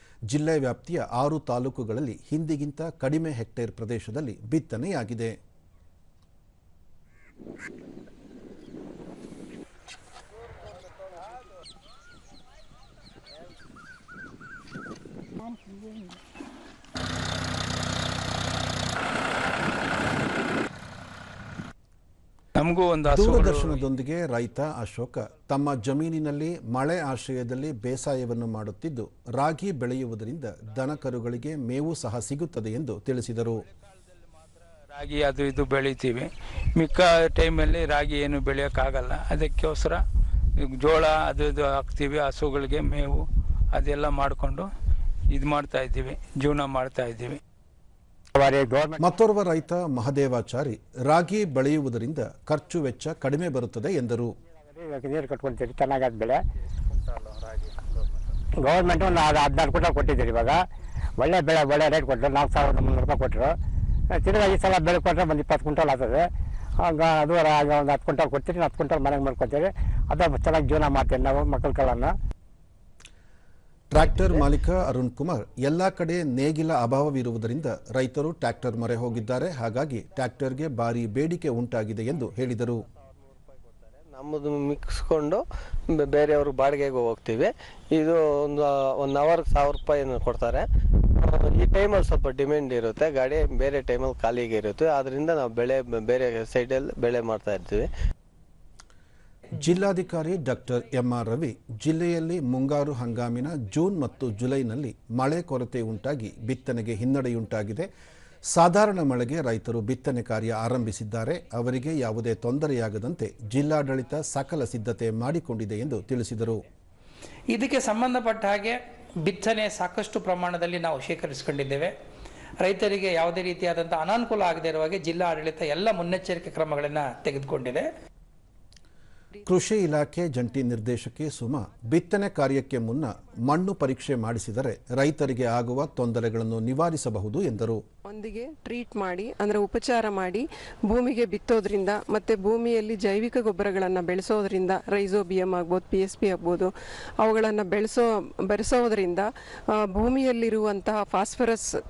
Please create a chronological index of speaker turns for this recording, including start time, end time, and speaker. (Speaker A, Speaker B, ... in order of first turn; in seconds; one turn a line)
Speaker A: 0.3-5.4
Speaker B: 22.6-23.8
Speaker A: 23.1-33.6
Speaker B: 34.9-40.0
Speaker B: 40.8-44.7
Speaker B: 45.3-47.4
Speaker C: 48.4-49.0
Speaker A: 49.0-54.3
Speaker C: 54.7-56.4
Speaker C: 58.6-60.6
Speaker C: 61.2-63.5
Speaker C: 64.1-66.3
Speaker C: 66.8-72.1
Speaker A: 73.9-82.8
Speaker D: 84.0-90.7
Speaker D: 91.2-97.9
Speaker A: 99.5-107.9
Speaker A: 108.5-116.6
Speaker E: 117.5-121.9
Speaker E: 122.6-127.9
Speaker A: 129.4-137.8
Speaker F: 138.1-151.7